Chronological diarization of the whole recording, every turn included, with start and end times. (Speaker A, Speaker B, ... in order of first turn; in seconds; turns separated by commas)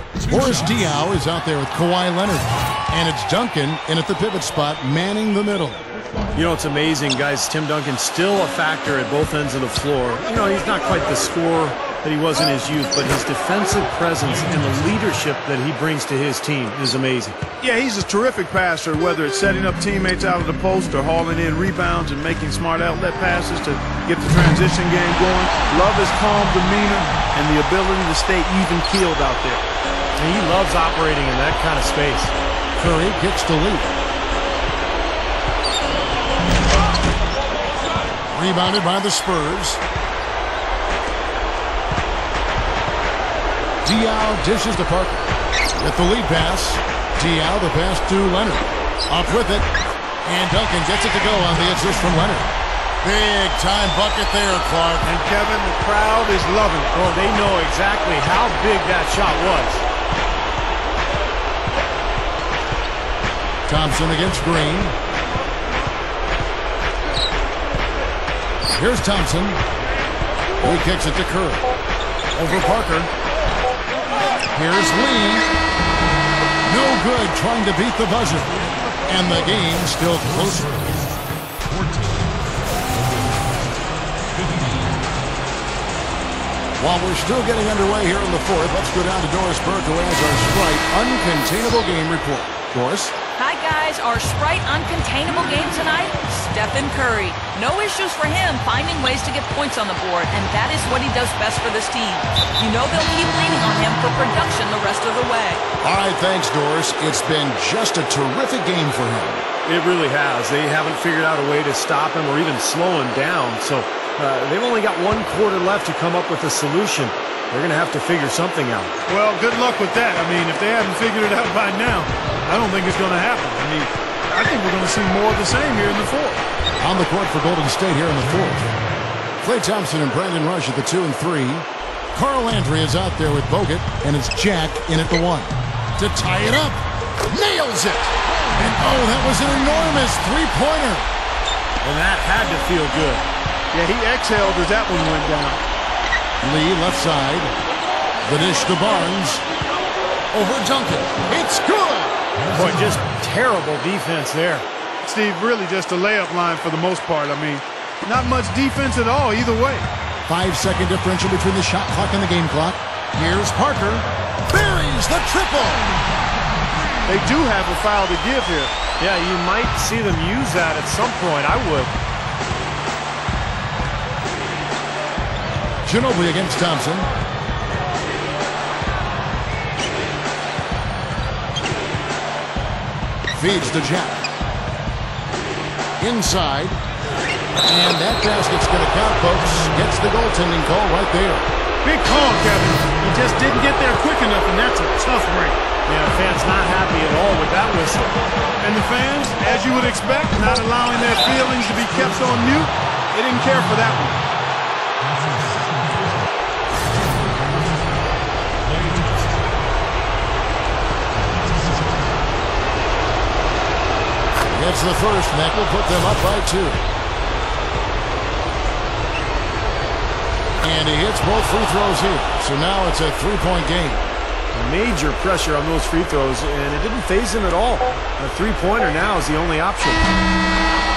Speaker A: 0.2-5.8, Speaker B: 6.3-17.4, Speaker C: 17.6-29.6, Speaker B: 30.2-32.3, Speaker A: 32.8-33.9, Speaker A: 38.3-39.8, Speaker A: 43.8-49.7, Speaker A: 50.2-55.1, Speaker C: 55.0-57.0, Speaker B: 56.9-59.8, Speaker A: 63.7-65.0, Speaker A: 68.7-69.6, Speaker A: 70.6-71.7, Speaker A: 72.4-73.1, Speaker A: 74.5-75.5, Speaker A: 76.7-78.5, Speaker A: 79.1-81.1, Speaker A: 81.7-82.3, Speaker A: 84.4-84.9, Speaker A: 86.8-93.1, Speaker D: 93.4-105.6, Speaker A: 105.8-109.5, Speaker B: 109.7-119.0, Speaker C: 119.1-126.4, Speaker A: 126.8-128.6, Speaker A: 129.4-141.1, Speaker B: 141.8-143.2, Speaker C: 143.7-145.6, Speaker A: 146.4-147.5, Speaker A: 148.2-149.4, Speaker A: 150.3-152.3, Speaker B: 152.5-154.7, Speaker C: 155.0-159.9, Speaker A: 160.3-165.9, Speaker C: 167.1-168.8, Speaker B: 169.0-171.9, Speaker A: 175.8-177.1, Speaker A: 183.3-184.2, Speaker A: 186.0-186.8, Speaker A: 187.7-191.4, Speaker C: 191.8-195.6, Speaker B: 195.9-198.2, Speaker C: 198.6-204.2, Speaker A: 214.4-216.8, Speaker A: 220.6-224.2, Speaker B: 224.5-230.1